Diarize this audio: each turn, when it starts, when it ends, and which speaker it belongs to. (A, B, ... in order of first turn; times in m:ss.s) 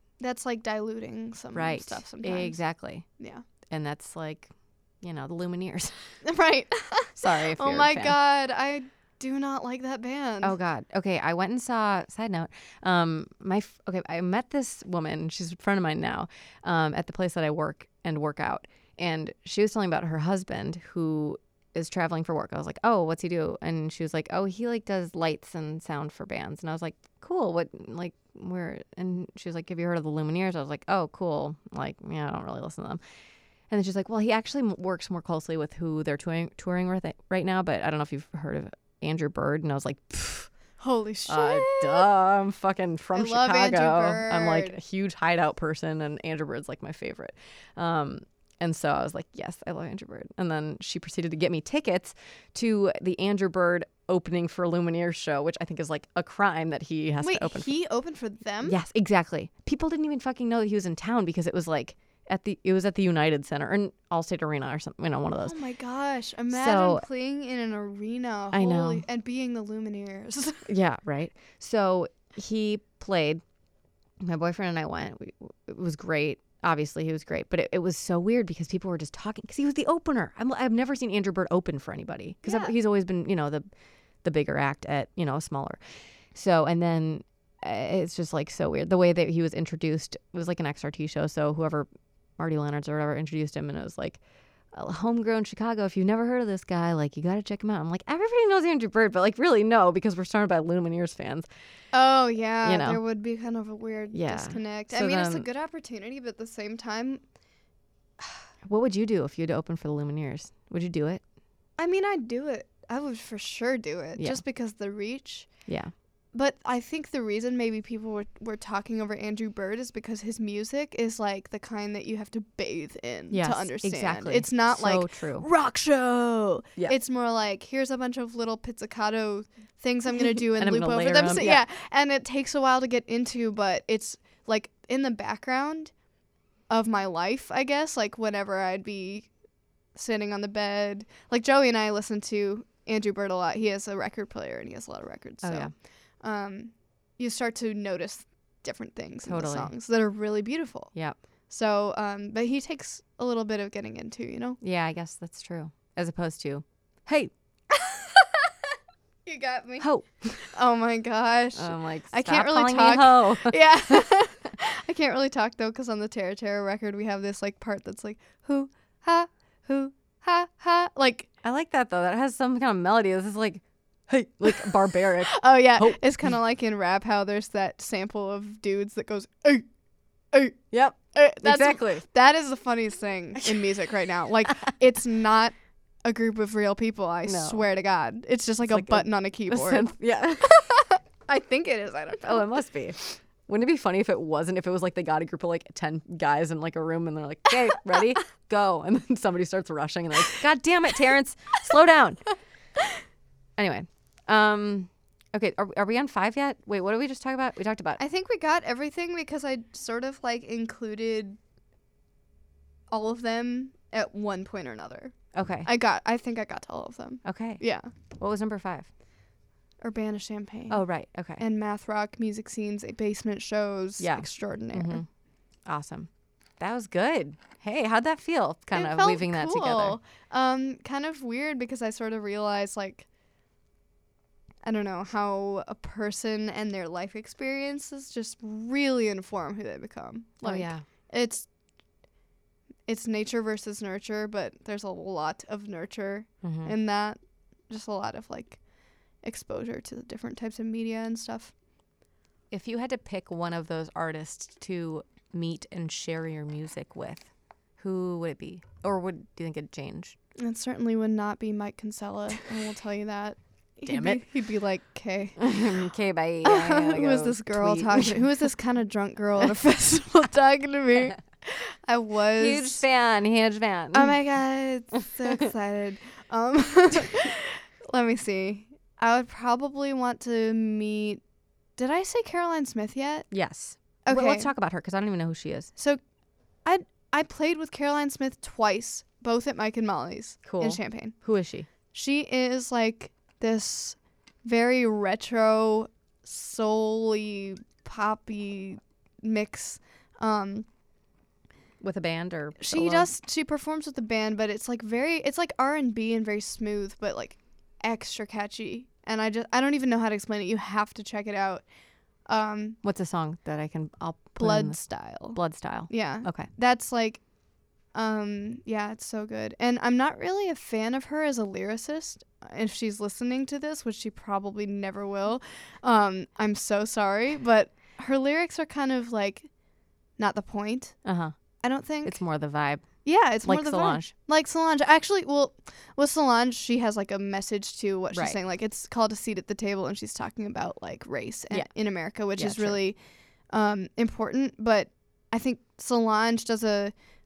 0:00.2-0:02.6 A
0:01.5-0:03.0 B
0:03.2-0:03.4 A
0:03.7-0:06.0 B
0:06.2-0:10.6 A
0:07.2-0:08.2 B
0:10.4-0:33.0 B
0:33.7-0:40.5 B
0:40.8-0:42.1 A
0:41.3-0:57.7 B
0:43.1-0:44.8 A
0:57.2-0:58.8 A
0:58.6-1:05.6 B
1:05.4-1:10.7 A
1:06.5-1:07.0 B
1:08.5-1:09.0 B
1:10.7-1:13.4 B
1:14.2-1:23.7 B
1:22.4-1:22.7 A
1:24.2-1:34.2 B
1:34.7-1:41.5 B
1:41.9-1:47.2 A
1:42.6-1:43.0 B
1:44.1-1:45.5 B
1:48.6-1:51.2 B
1:51.8-1:55.6 A
1:55.7-1:55.9 B
1:56.3-2:15.9 A
2:03.3-2:05.5 B
2:10.6-2:11.6 B
2:16.7-2:19.3 A
2:20.0-2:31.0 A
2:25.4-2:25.7 B
2:29.2-2:29.7 B
2:31.5-2:34.6 A
2:34.6-2:37.3 B
2:37.7-2:38.5 A
2:39.3-2:39.9 A
2:39.8-2:40.5 B
2:40.4-2:51.3 A
2:41.6-2:44.2 B
2:51.4-2:56.3 B
2:55.2-2:59.6 A
3:00.3-3:12.6 A
3:00.7-3:02.0 B
3:07.2-3:07.6 B
3:08.7-3:10.6 B
3:12.2-3:22.2 B
3:23.6-3:28.0 B
3:28.0-3:31.4 A
3:32.9-3:37.9 A
3:35.3-3:35.7 B
3:37.2-3:37.6 B
3:38.2-3:38.9 B
3:39.8-3:40.8 A
3:40.7-3:41.4 B
3:41.4-3:45.0 A
3:44.0-3:45.1 B
3:45.7-3:46.1 B
3:46.6-3:50.0 B
3:48.7-3:53.1 A
3:54.6-4:01.5 A
4:00.4-4:00.8 B
4:02.9-4:07.2 A
4:06.4-4:06.7 B
4:07.7-4:08.6 A
4:09.2-4:11.5 A
4:12.5-4:20.2 B
4:20.4-4:25.6 A
4:23.8-4:24.2 B
4:25.4-4:28.2 B
4:26.4-4:32.8 A
4:32.4-4:34.2 B
4:33.9-4:41.2 A
4:41.8-4:43.3 A
4:43.3-4:45.7 B
4:44.0-4:44.5 A
4:46.6-4:51.2 A
4:50.4-4:51.7 B
4:51.9-5:00.7 A
5:01.8-5:03.1 B
5:02.6-5:11.7 A
5:12.3-5:12.8 A
5:12.8-5:16.5 B
5:14.4-5:17.2 A
5:17.9-5:29.5 A
5:30.2-5:31.0 A
5:31.0-5:31.4 B
5:31.6-5:32.2 A
5:32.0-5:34.1 B
5:33.0-5:43.0 A
5:38.1-5:38.4 B
5:42.4-5:42.8 B
5:43.5-5:46.9 A